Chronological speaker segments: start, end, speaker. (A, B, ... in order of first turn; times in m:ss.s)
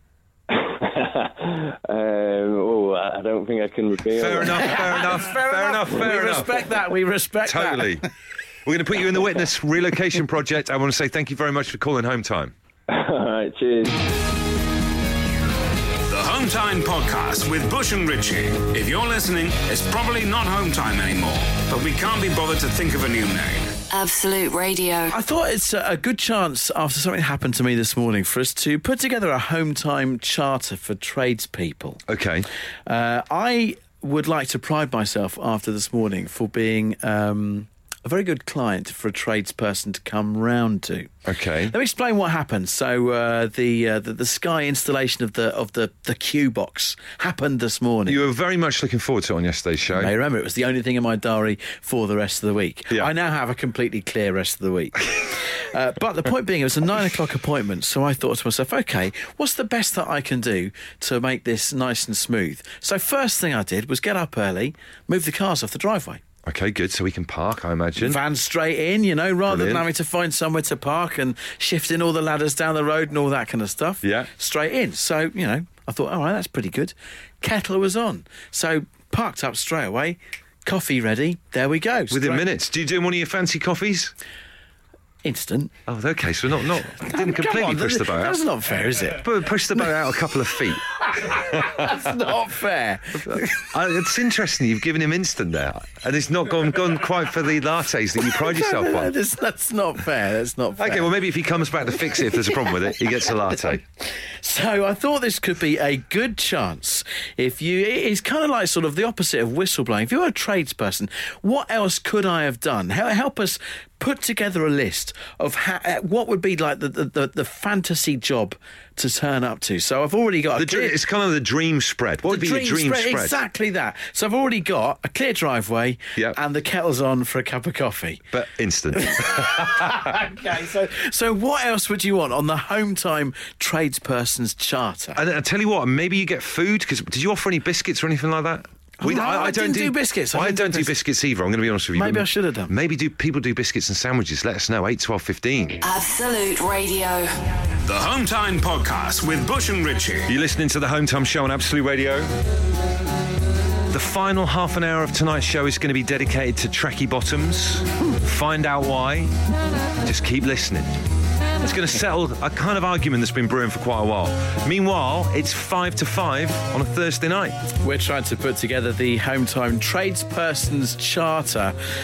0:00.5-0:04.7 A
0:04.2-0:06.7 B
0:04.6-0:08.0 C
0:07.4-0:08.0 B
0:08.7-0:12.5 B
0:12.9-0:14.0 A
0:16.1-0:23.7 D
0:23.9-0:25.1 E
0:25.1-0:32.0 C
0:32.1-0:32.5 B
0:32.9-0:41.1 C
0:41.3-0:41.7 B
0:41.7-0:48.2 C
0:48.1-0:50.1 B
0:50.0-1:06.2 C
1:06.4-1:08.2 B
1:08.0-1:22.5 C
1:09.5-1:09.9 B
1:14.0-1:14.3 B
1:22.1-1:24.1 B
1:25.2-1:25.7 C
1:25.9-1:28.4 B
1:27.0-1:29.3 C
1:29.2-1:32.0 B
1:31.1-1:33.7 C
1:33.2-1:39.2 B
1:38.3-1:41.2 C
1:40.8-1:43.8 B
1:44.4-2:01.0 C
2:00.6-2:03.4 B
2:02.2-2:08.3 C
2:08.3-2:10.1 B
2:09.0-2:15.2 C
2:15.2-2:25.8 B
2:19.0-2:20.9 C
2:22.0-2:22.7 C
2:25.8-2:27.3 E
2:27.8-2:30.3 D
2:30.3-2:32.3 B
2:33.9-2:39.4 B
2:40.0-2:41.0 B
2:41.6-2:47.6 B
2:47.8-2:51.8 C